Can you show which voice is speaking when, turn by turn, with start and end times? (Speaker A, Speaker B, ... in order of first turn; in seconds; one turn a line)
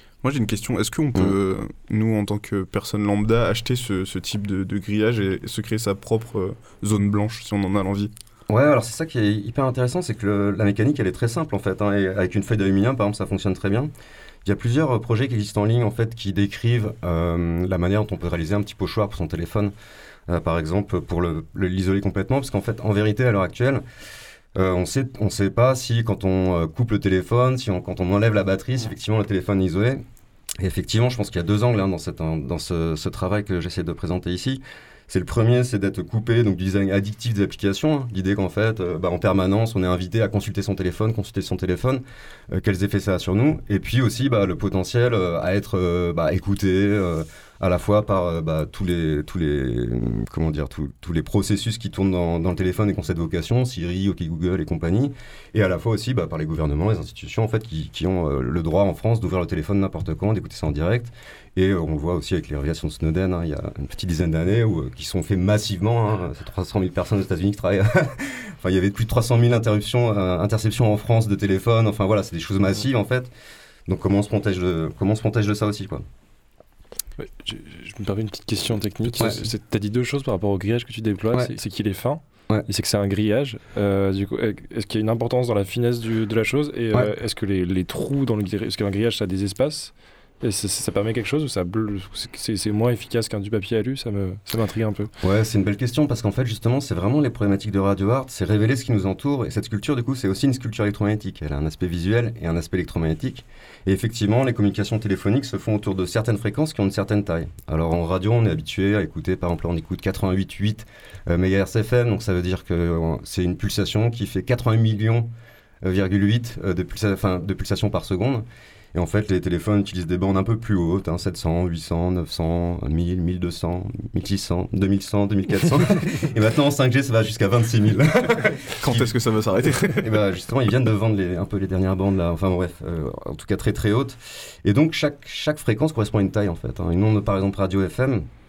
Speaker A: 0.2-8.1
Speaker B: 8.5-13.9
Speaker B: 14.4-19.7
Speaker B: 20.3-23.8
Speaker B: 24.6-30.0
Speaker B: 30.6-73.3
Speaker B: 73.9-76.0
Speaker C: 77.2-95.1
Speaker B: 79.1-79.5
Speaker B: 95.2-115.3
Speaker B: 115.8-129.1
Speaker A: 128.8-130.2
Speaker B: 130.0-138.3